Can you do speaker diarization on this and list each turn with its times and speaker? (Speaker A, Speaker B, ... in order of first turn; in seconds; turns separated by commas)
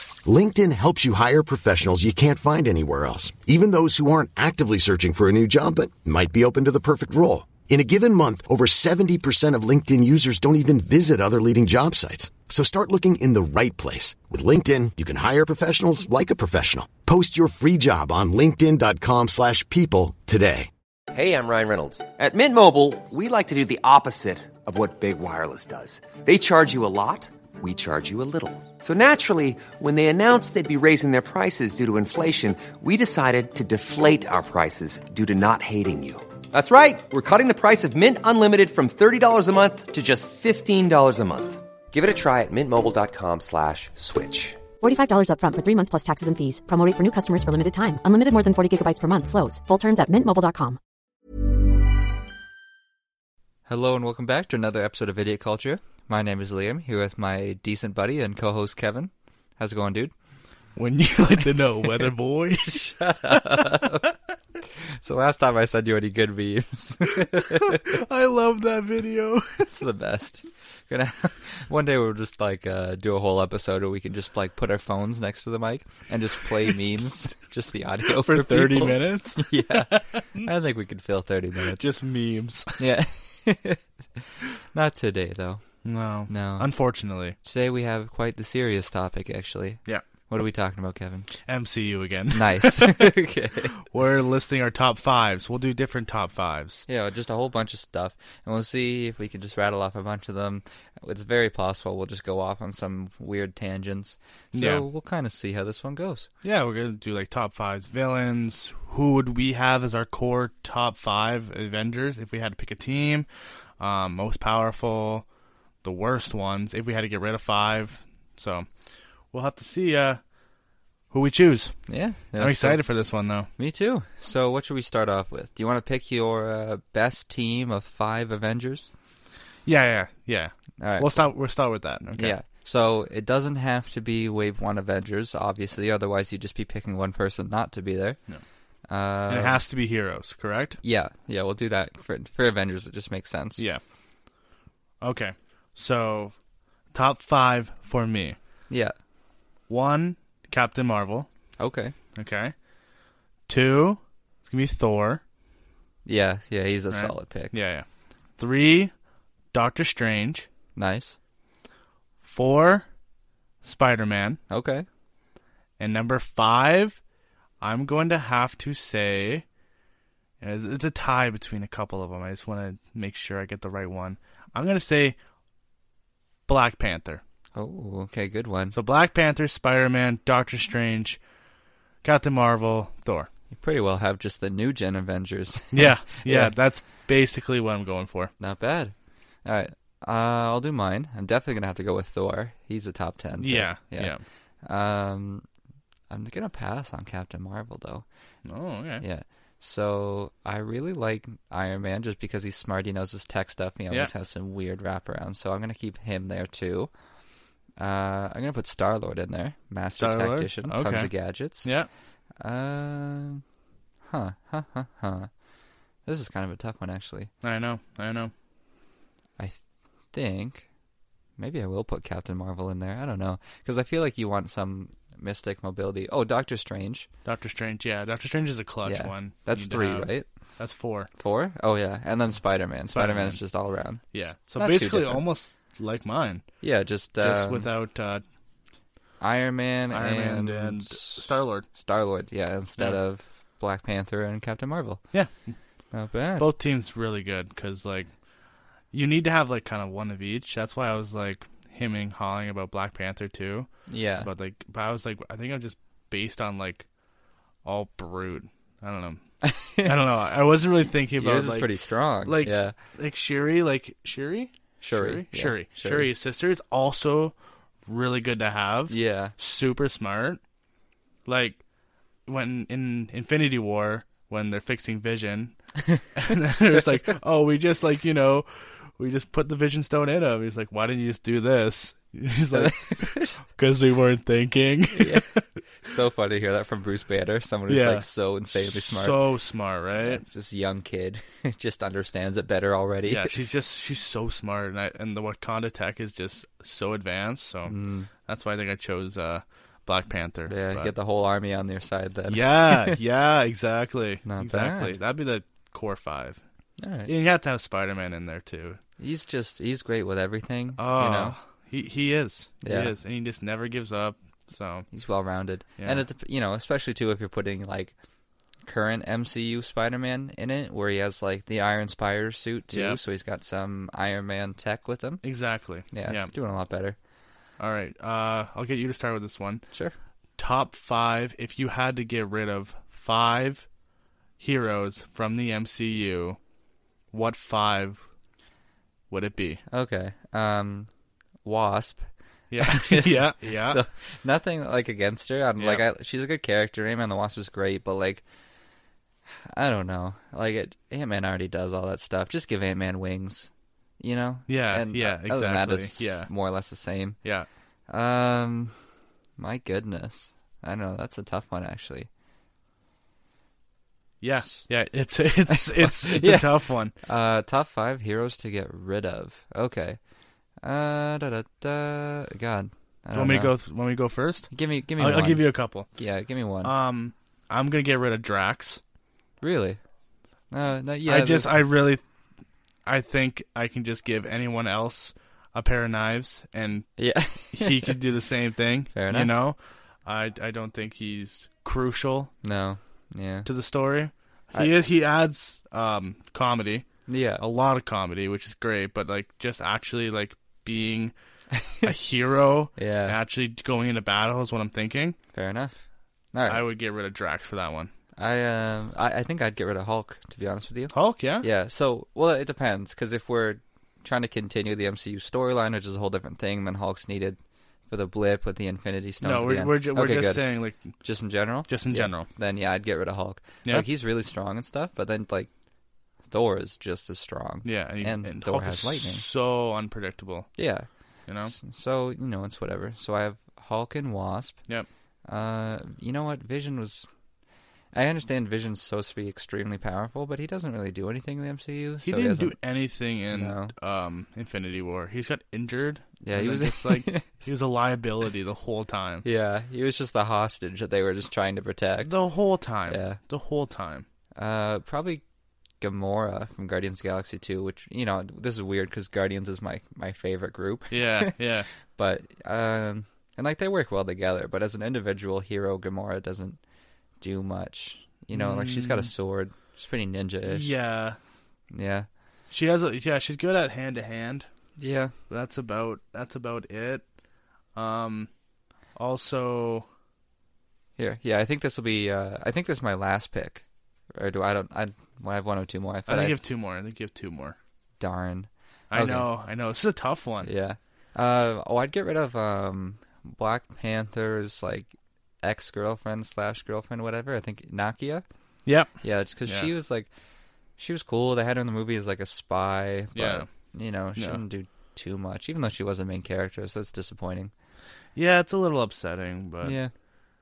Speaker A: 0.2-20.7, Speaker B: 21.1-44.6, Speaker C: 44.8-50.8, Speaker D: 53.7-60.1, Speaker E: 60.8-63.2, Speaker D: 62.7-64.1, Speaker D: 64.8-68.0, Speaker E: 67.2-69.8, Speaker D: 69.7-81.9, Speaker E: 78.2-80.5, Speaker E: 81.8-82.9, Speaker D: 82.8-85.6, Speaker E: 85.8-87.4, Speaker D: 86.3-86.7, Speaker D: 87.4-91.3, Speaker E: 91.5-93.2, Speaker D: 92.3-93.7, Speaker E: 93.9-96.8, Speaker D: 96.9-106.3, Speaker E: 104.5-104.8, Speaker E: 106.4-113.3, Speaker E: 113.8-115.2, Speaker E: 115.8-118.7, Speaker E: 119.3-120.2, Speaker E: 121.1-121.8, Speaker D: 121.9-122.8, Speaker E: 122.4-123.5, Speaker D: 123.6-128.9, Speaker E: 129.7-132.4, Speaker D: 130.8-131.2, Speaker D: 132.2-138.2, Speaker D: 138.9-139.6, Speaker E: 139.3-140.8, Speaker D: 140.8-143.6, Speaker E: 145.0-146.3, Speaker E: 146.9-148.4, Speaker D: 148.7-148.9, Speaker E: 149.7-151.3, Speaker D: 151.6-152.0, Speaker E: 152.2-152.5, Speaker E: 153.5-155.2, Speaker D: 156.1-157.5, Speaker E: 156.9-157.9, Speaker E: 158.4-158.9, Speaker E: 159.5-160.5, Speaker D: 160.8-161.2, Speaker E: 162.2-162.9, Speaker E: 163.6-164.4, Speaker D: 164.5-164.9, Speaker E: 165.8-167.0, Speaker E: 167.6-169.4, Speaker E: 170.4-175.2, Speaker E: 176.5-177.2, Speaker D: 177.6-178.8, Speaker E: 178.7-181.2, Speaker E: 182.0-183.3, Speaker D: 183.5-186.5, Speaker E: 185.7-188.3, Speaker D: 188.4-188.9, Speaker D: 189.4-195.5, Speaker E: 193.4-194.2, Speaker D: 196.1-198.1, Speaker E: 198.5-199.0, Speaker D: 199.0-206.9, Speaker D: 207.8-211.7, Speaker E: 210.0-211.1, Speaker D: 212.4-213.4, Speaker D: 214.1-215.3, Speaker D: 216.1-217.3, Speaker E: 217.4-218.3, Speaker D: 220.1-220.7, Speaker D: 221.4-227.1, Speaker E: 227.2-231.1, Speaker D: 228.8-230.3, Speaker D: 231.2-234.1, Speaker E: 232.9-233.4, Speaker E: 234.1-236.4, Speaker D: 234.6-235.2, Speaker D: 236.6-237.7, Speaker E: 237.2-238.2, Speaker D: 239.2-241.2, Speaker E: 239.9-241.7, Speaker D: 241.8-245.0, Speaker E: 245.1-245.6, Speaker D: 245.9-246.5, Speaker E: 246.4-248.1, Speaker E: 248.9-253.7, Speaker D: 253.9-254.3, Speaker E: 254.2-256.9, Speaker E: 257.6-259.2, Speaker D: 259.4-260.0, Speaker E: 259.8-261.7, Speaker D: 261.2-262.8, Speaker E: 262.2-267.4, Speaker D: 264.8-266.1, Speaker E: 267.9-270.4, Speaker D: 268.9-269.3, Speaker E: 271.3-271.6, Speaker E: 272.3-275.6, Speaker E: 276.2-285.4, Speaker D: 282.5-283.4, Speaker D: 284.9-285.3, Speaker D: 285.8-289.2, Speaker E: 287.7-290.2, Speaker D: 290.0-293.4, Speaker E: 293.1-297.8, Speaker D: 297.7-298.1, Speaker E: 298.3-300.9, Speaker D: 300.5-303.0, Speaker E: 302.3-306.4, Speaker D: 304.2-304.9, Speaker D: 306.8-307.1, Speaker E: 307.1-308.8, Speaker D: 309.0-311.4, Speaker E: 310.8-314.9, Speaker D: 312.6-312.9, Speaker D: 314.9-317.9, Speaker E: 315.8-316.0, Speaker D: 318.6-325.2, Speaker E: 322.7-323.0, Speaker E: 325.2-326.3, Speaker D: 325.9-327.0, Speaker E: 327.6-329.6, Speaker E: 330.4-333.7, Speaker E: 334.4-336.4, Speaker E: 337.1-338.1, Speaker E: 339.1-339.6, Speaker D: 339.7-340.9, Speaker D: 341.4-348.2, Speaker E: 342.5-343.8, Speaker E: 345.6-345.8, Speaker D: 349.3-357.2, Speaker E: 354.5-356.3, Speaker D: 357.9-358.8, Speaker D: 359.4-362.1, Speaker E: 364.2-366.9, Speaker D: 365.7-366.5, Speaker D: 367.0-370.0, Speaker D: 370.6-373.5, Speaker E: 373.1-375.9, Speaker D: 374.5-376.7, Speaker E: 376.6-378.8, Speaker D: 379.4-379.8, Speaker D: 380.5-381.6, Speaker E: 381.1-382.0, Speaker E: 382.9-386.9, Speaker D: 387.0-388.0, Speaker E: 387.5-392.3, Speaker D: 388.9-389.4, Speaker D: 392.4-393.5, Speaker E: 393.5-396.9, Speaker D: 397.1-397.4, Speaker E: 397.4-401.1, Speaker D: 401.5-401.9, Speaker E: 401.8-405.2, Speaker D: 402.8-403.2, Speaker D: 405.3-405.8, Speaker D: 406.3-406.6, Speaker E: 406.5-407.9, Speaker D: 408.2-420.4, Speaker E: 410.9-411.5, Speaker E: 419.2-420.9, Speaker D: 421.0-425.5, Speaker E: 421.7-422.3, Speaker D: 426.3-429.2, Speaker E: 427.6-430.5, Speaker D: 430.6-430.9, Speaker E: 431.3-431.6, Speaker D: 431.4-434.6, Speaker D: 435.3-437.1, Speaker D: 437.9-442.6, Speaker E: 442.0-449.2, Speaker D: 443.3-443.7, Speaker D: 446.2-447.2, Speaker D: 449.2-452.1, Speaker E: 452.0-454.1, Speaker D: 452.9-453.2, Speaker D: 454.4-455.2, Speaker D: 455.8-461.3, Speaker E: 460.9-461.7, Speaker D: 461.9-466.6, Speaker D: 467.2-470.7, Speaker E: 468.3-469.1, Speaker E: 470.5-471.2, Speaker D: 471.7-472.1, Speaker E: 472.5-474.5, Speaker D: 474.8-475.1, Speaker E: 475.3-477.0, Speaker E: 477.8-478.3, Speaker E: 479.0-479.9, Speaker D: 481.0-486.4, Speaker E: 486.1-487.6, Speaker D: 488.0-489.3, Speaker E: 488.9-490.5, Speaker D: 490.4-498.2, Speaker D: 499.0-500.1, Speaker D: 500.8-507.5, Speaker E: 503.1-503.5, Speaker E: 504.2-504.4, Speaker E: 508.2-509.8, Speaker D: 509.6-509.9